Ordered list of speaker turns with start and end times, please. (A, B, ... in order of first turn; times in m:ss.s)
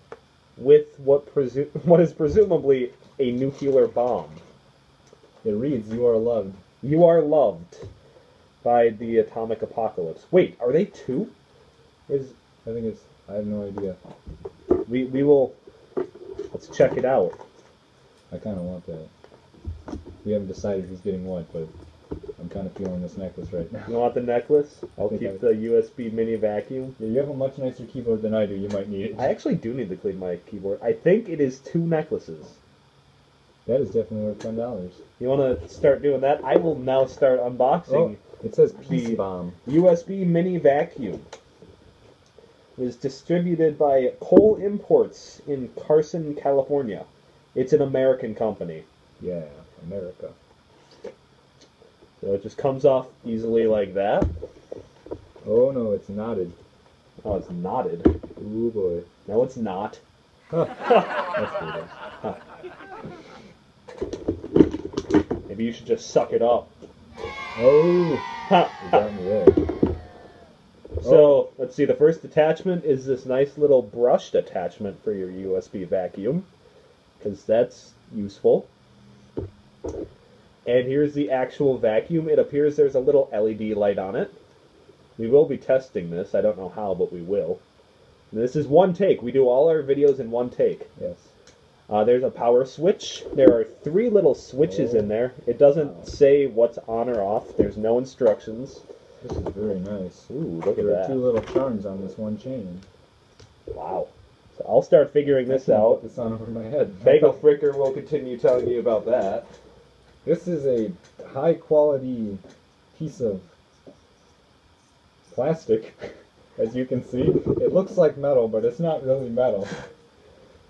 0:00.6-0:04.4 A
0:05.4-0:06.6 B
0:06.8-0:07.8 A
0:08.6-0:11.3 A
0:12.1-0:12.3 A
0:12.6-0:14.0 B
0:14.9-0:15.6 A
0:16.5-0:17.4 A
0:18.3-0:19.1 B
0:20.2-0:21.7 B
0:22.4-0:24.0 B
0:23.9-0:27.0 A
0:25.0-0:25.4 B
0:27.0-0:29.3 B
0:29.2-0:32.6 A
0:33.6-0:35.0 B
0:35.2-0:38.2 A
0:37.9-0:39.6 B
0:38.8-0:41.3 A
0:42.8-0:48.8 A
0:49.2-0:50.3 B
0:52.2-0:54.3 A
0:55.4-0:56.6 B
0:57.2-0:58.1 A
0:58.4-0:59.1 B
0:59.2-1:00.0 A
1:00.5-1:01.9 B
1:05.5-1:06.7 A
1:07.6-1:08.2 B
1:08.5-1:09.0 A
1:08.8-1:09.6 B
1:11.0-1:16.5 A
1:11.0-1:11.4 B
1:17.2-1:18.7 A
1:20.6-1:24.3 A
1:25.2-1:27.6 A
1:28.3-1:30.9 A
1:31.0-1:31.3 B
1:31.9-1:38.8 A
1:34.6-1:35.1 B
1:35.8-1:36.1 B
1:39.2-1:42.8 B
1:40.3-1:41.2 A
1:43.7-1:46.0 A
1:45.4-1:47.4 B
1:47.0-1:49.5 A
1:50.2-1:52.4 B
1:52.9-1:53.5 B
1:55.3-1:59.7 B